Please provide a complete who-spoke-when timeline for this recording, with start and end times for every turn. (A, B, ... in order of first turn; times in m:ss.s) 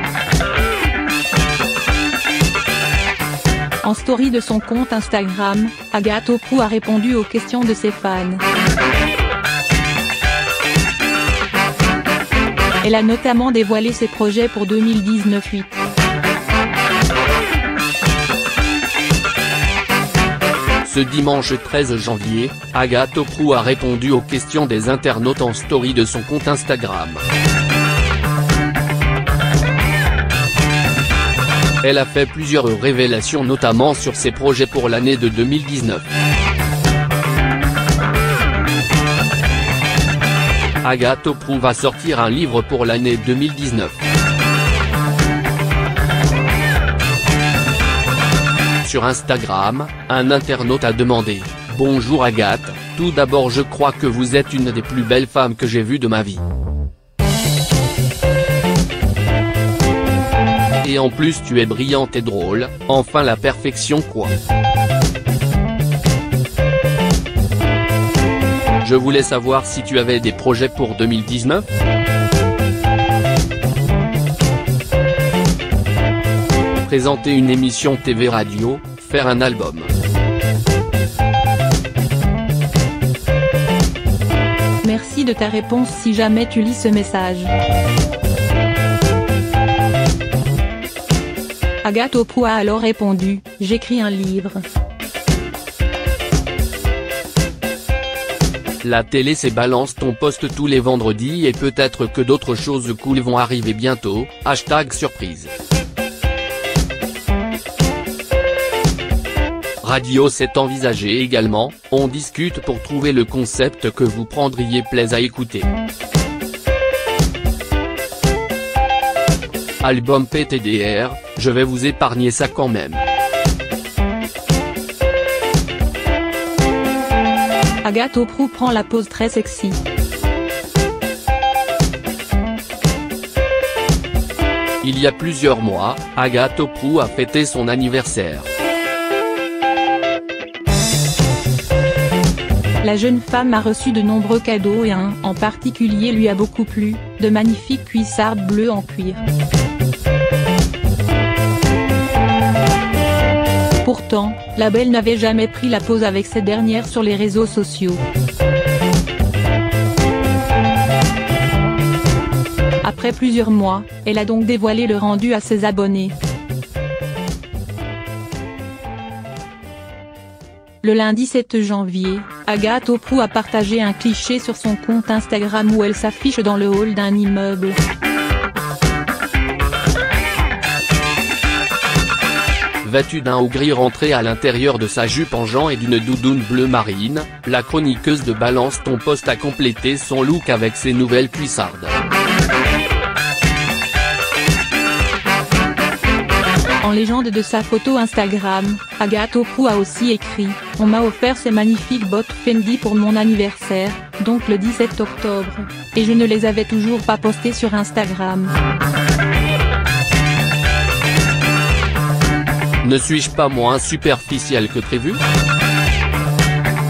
0:03.8-0:08.4 A
0:12.8-0:15.8 A
0:20.8-0:27.2 B
0:31.8-0:36.0 B
0:40.8-0:44.0 B
0:48.8-0:56.4 B
1:00.8-1:04.3 B
1:08.8-1:11.6 B
1:16.8-1:19.9 B
1:24.8-1:27.5 A
1:31.8-1:34.6 A
1:38.8-1:45.5 B
1:49.8-1:55.7 B
1:59.8-2:03.0 B
2:07.8-2:09.8 A
2:14.8-2:18.5 B
2:22.8-2:29.2 A
2:33.8-2:38.0 A
2:42.8-2:46.1 A
2:50.8-2:57.8 A
3:02.8-3:11.9 B
3:16.8-3:28.5 A
3:32.8-3:35.2 B